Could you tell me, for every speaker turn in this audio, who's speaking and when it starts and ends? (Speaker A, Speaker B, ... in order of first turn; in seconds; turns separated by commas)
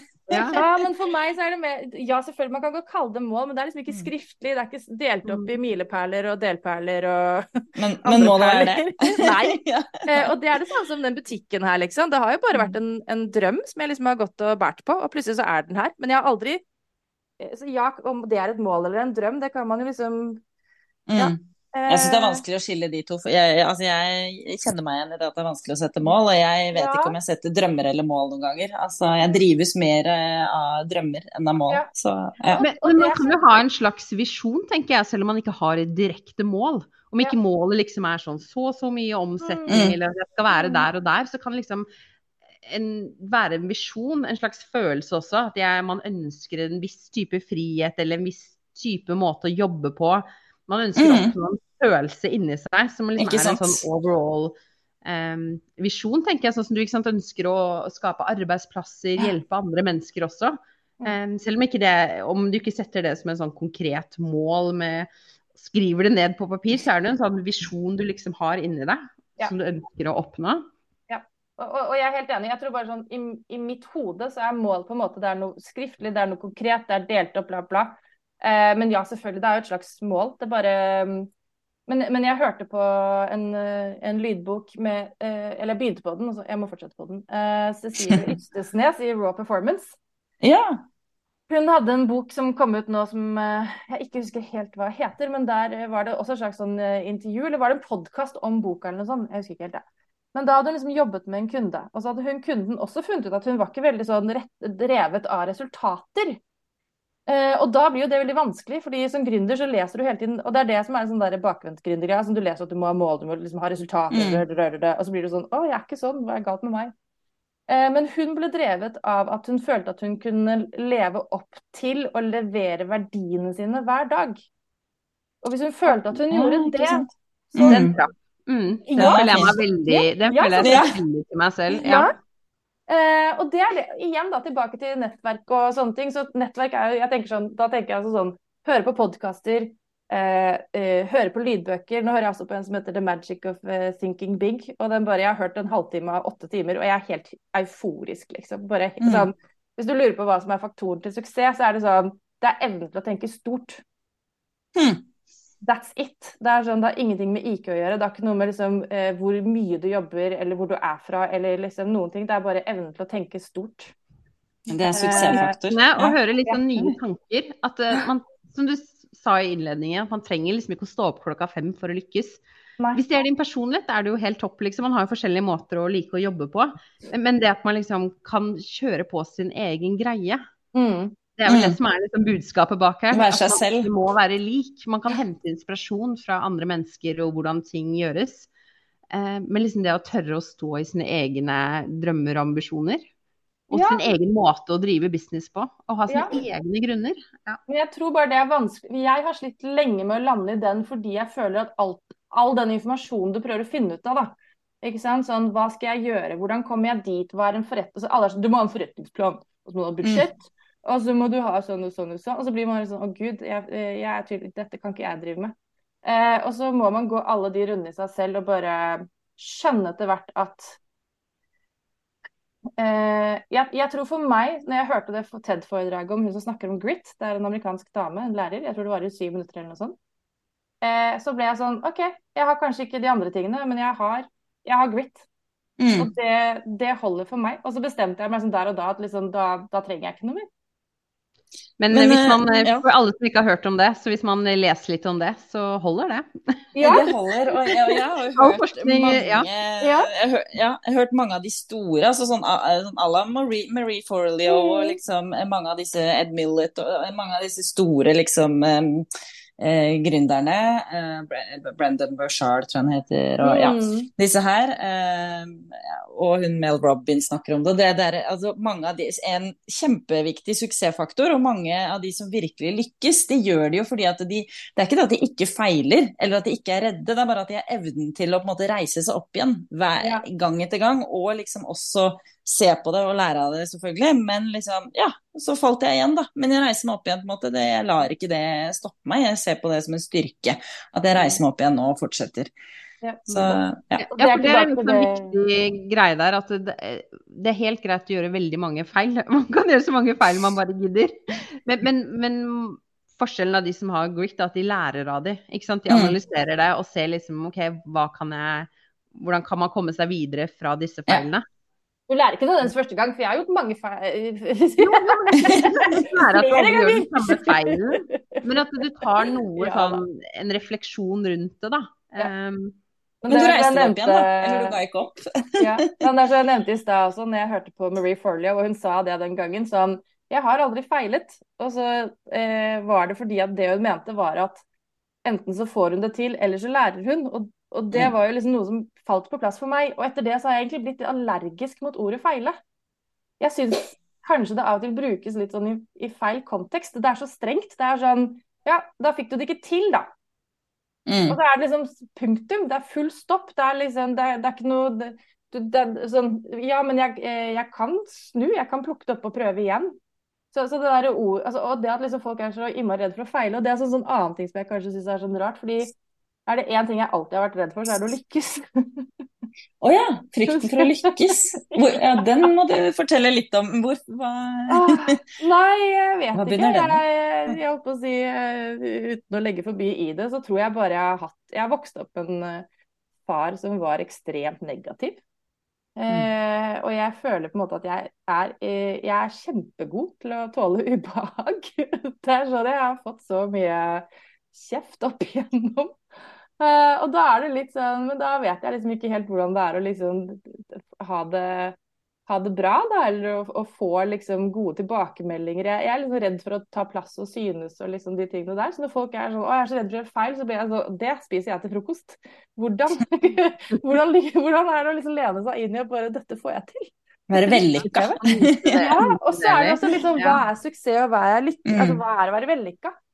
Speaker A: 0.3-0.7, Speaker B: 0.3-0.6, Speaker C: 0.5-7.5, Speaker B: 5.3-5.5, Speaker A: 7.8-10.3, Speaker C: 8.0-16.6, Speaker C: 17.4-20.4, Speaker A: 21.1-21.4, Speaker C: 21.1-22.4, Speaker A: 21.9-32.6, Speaker C: 26.7-27.1, Speaker C: 32.4-33.5, Speaker B: 32.6-41.9, Speaker C: 39.4-39.8, Speaker A: 39.7-40.0, Speaker C: 40.5-40.9, Speaker B: 42.6-70.6, Speaker A: 51.0-51.3, Speaker A: 53.2-53.8, Speaker C: 71.1-81.3, Speaker C: 81.9-90.0, Speaker A: 90.4-90.8, Speaker C: 91.5-99.8, Speaker C: 100.3-106.4, Speaker C: 107.3-116.9, Speaker A: 114.1-114.4, Speaker C: 117.7-124.5, Speaker C: 125.4-127.0, Speaker A: 125.9-128.0, Speaker C: 127.6-128.0, Speaker B: 127.6-132.1, Speaker C: 128.9-130.8, Speaker A: 129.0-129.6, Speaker A: 130.6-130.9, Speaker C: 131.7-132.1, Speaker C: 132.9-153.8, Speaker A: 149.0-149.3, Speaker A: 154.7-155.0, Speaker C: 155.6-163.9, Speaker A: 164.7-166.2, Speaker C: 164.9-165.6, Speaker B: 165.1-172.4, Speaker B: 172.9-180.4, Speaker C: 180.7-181.2, Speaker B: 181.4-188.5, Speaker A: 181.5-181.8, Speaker A: 183.1-183.9, Speaker B: 189.1-193.0, Speaker B: 193.7-197.6, Speaker C: 193.7-194.1, Speaker C: 196.1-196.4, Speaker C: 197.7-220.8, Speaker C: 222.8-229.9, Speaker C: 230.8-235.2, Speaker A: 235.8-236.1, Speaker C: 236.0-240.5, Speaker B: 241.8-246.5, Speaker A: 241.9-242.8, Speaker C: 246.7-247.1, Speaker A: 246.8-259.1, Speaker C: 247.7-247.9, Speaker B: 248.3-249.5, Speaker C: 249.8-250.1, Speaker C: 254.4-255.0, Speaker A: 259.6-292.5, Speaker C: 263.4-264.1, Speaker B: 293.3-311.4, Speaker A: 293.3-294.1, Speaker C: 294.1-295.4, Speaker A: 305.9-306.2, Speaker C: 312.1-320.0, Speaker B: 314.8-322.7, Speaker C: 323.2-324.8, Speaker A: 323.3-325.8, Speaker C: 325.6-334.6, Speaker C: 335.2-342.6, Speaker C: 343.4-350.1, Speaker A: 351.1-351.4, Speaker C: 351.3-359.9, Speaker C: 360.5-365.9, Speaker C: 366.5-369.0, Speaker A: 369.8-375.1, Speaker C: 370.5-371.1, Speaker C: 371.7-372.5, Speaker C: 374.7-382.6, Speaker A: 376.3-377.5, Speaker C: 383.2-385.2, Speaker C: 386.0-395.9, Speaker C: 396.6-401.8, Speaker C: 402.3-418.2, Speaker A: 417.3-418.8, Speaker B: 417.8-420.4, Speaker C: 418.8-422.9, Speaker A: 421.6-422.0